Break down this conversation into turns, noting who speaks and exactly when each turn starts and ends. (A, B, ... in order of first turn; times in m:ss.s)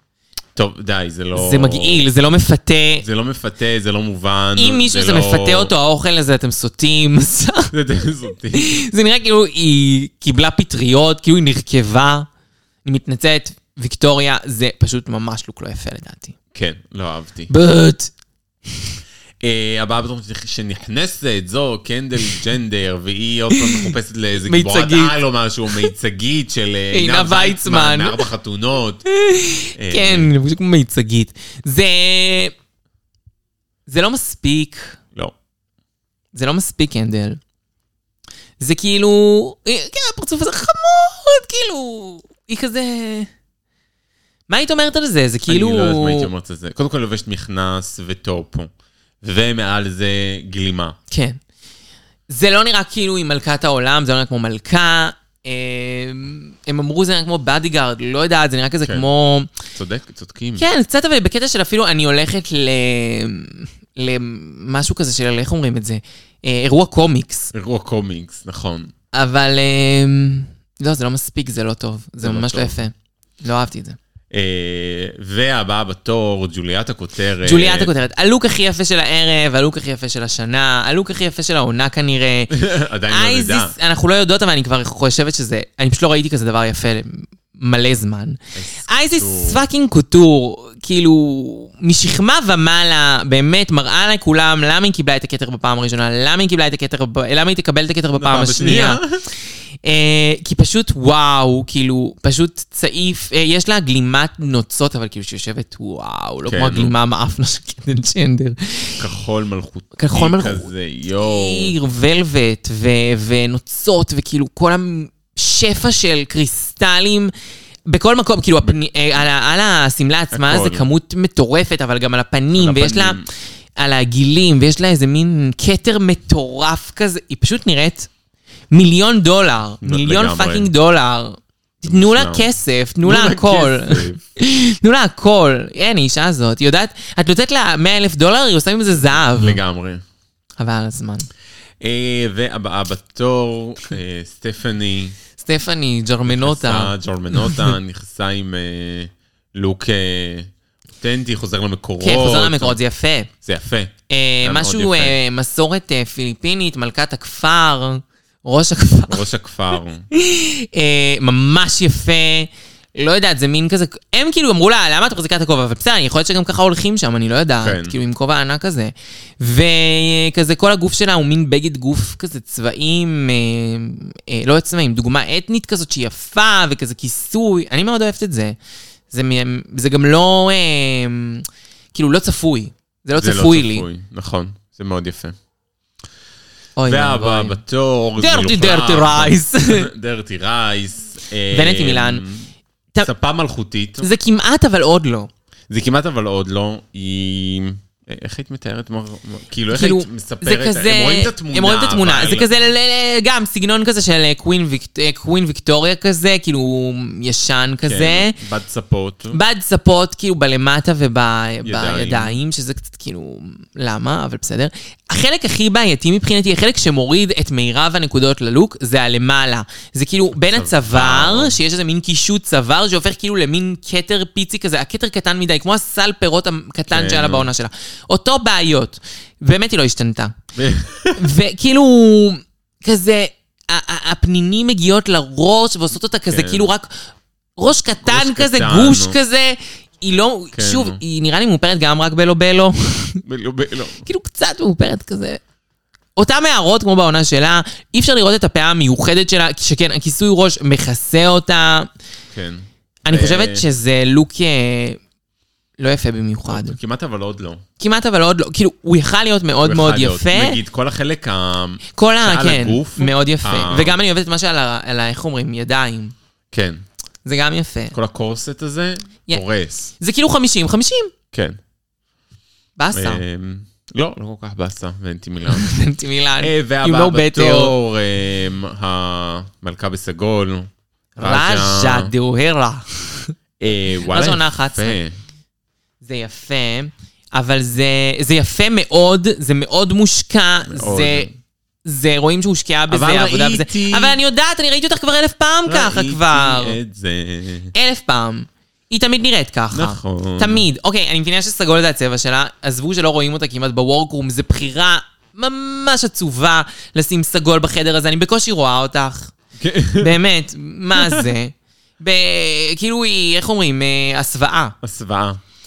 0:00.6-0:02.1 A
0:01.4-0:03.0 B
0:03.0-0:05.7 A
0:04.6-0:07.7 B
0:07.7-0:08.8 A
0:08.5-0:12.3 B
0:12.8-0:16.4 B
0:16.5-0:17.5 A
0:17.5-0:18.1 B
0:19.4-0:29.0 A
0:23.5-0:23.9 B
0:24.4-0:25.2 B
0:26.9-0:28.3 B
0:29.1-0:32.5 B
0:29.8-0:30.3 A
0:33.9-0:35.0 B
0:36.3-0:37.4 B
0:38.6-0:43.3 B
0:44.5-0:46.3 B
0:45.5-0:48.7 A
0:49.2-0:51.0 A
0:51.1-0:51.4 B
0:52.3-0:59.5 B
0:59.7-1:00.6 A
1:00.6-1:07.5 B
1:07.5-1:08.9 A
1:09.1-1:14.0 B
1:12.2-1:12.8 A
1:14.3-1:17.9 A
1:17.4-1:39.0 B
1:22.5-1:23.7 A
1:28.6-1:29.6 A
1:38.2-1:39.2 A
1:39.8-1:49.0 B
1:46.5-1:46.9 A
1:49.0-1:51.8 A
1:50.0-1:57.3 B
1:57.9-2:03.2 B
2:00.3-2:00.9 A
2:02.6-2:03.3 A
2:03.8-2:08.1 B
2:08.7-2:19.6 B
2:09.8-2:10.7 A
2:11.8-2:12.5 A
2:13.0-2:14.2 A
2:19.3-2:20.0 A
2:20.6-2:21.3 B
2:21.8-2:25.2 A
2:25.4-2:27.7 B
2:26.2-2:30.5 A
2:31.0-2:32.8 A
2:32.0-2:33.3 B
2:33.4-2:35.2 A
2:34.1-2:39.2 B
2:39.1-2:40.1 A
2:40.1-2:58.6 B
2:47.6-2:48.0 A
2:59.1-3:03.9 B
3:03.2-3:05.4 A
3:06.8-3:07.6 B
3:06.8-3:12.5 A
3:08.2-3:09.9 B
3:11.5-3:12.2 B
3:13.0-3:14.1 A
3:14.0-3:15.3 B
3:15.7-3:22.5 A
3:19.7-3:28.4 B
3:27.9-3:29.4 A
3:29.3-3:50.4 B
3:31.6-3:32.4 A
3:40.4-3:41.6 A
3:46.9-3:47.5 A
3:50.6-3:51.3 A
3:51.2-3:57.0 B
3:56.3-3:56.7 A
3:57.6-4:03.2 B
3:58.0-3:59.2 A
4:00.5-4:01.0 A
4:03.2-4:04.1 A
4:04.0-4:05.4 B
4:06.2-4:11.9 B
4:12.3-4:13.6 A
4:13.0-4:15.0 B
4:15.8-4:16.8 B
4:16.5-4:17.6 A
4:17.8-4:20.6 B
4:19.6-4:24.0 A
4:21.9-4:26.2 B
4:26.5-4:26.8 A
4:27.2-4:28.0 B
4:27.9-4:29.9 A
4:30.0-4:31.1 B
4:31.3-4:31.6 A
4:32.8-4:33.2 B
4:32.9-4:35.7 A
4:35.5-4:37.8 B
4:36.4-4:42.1 A
4:41.2-4:43.3 B
4:43.6-4:45.2 A
4:44.1-4:45.0 B
4:46.0-4:51.3 B
4:50.7-4:51.4 A
4:51.8-4:56.8 B
4:52.9-4:54.2 A
4:55.7-4:57.7 A
4:57.7-5:09.3 B
4:59.7-5:00.7 A
5:09.6-5:10.2 A
5:10.0-5:14.8 B
5:11.0-5:11.3 A
5:14.8-5:15.4 A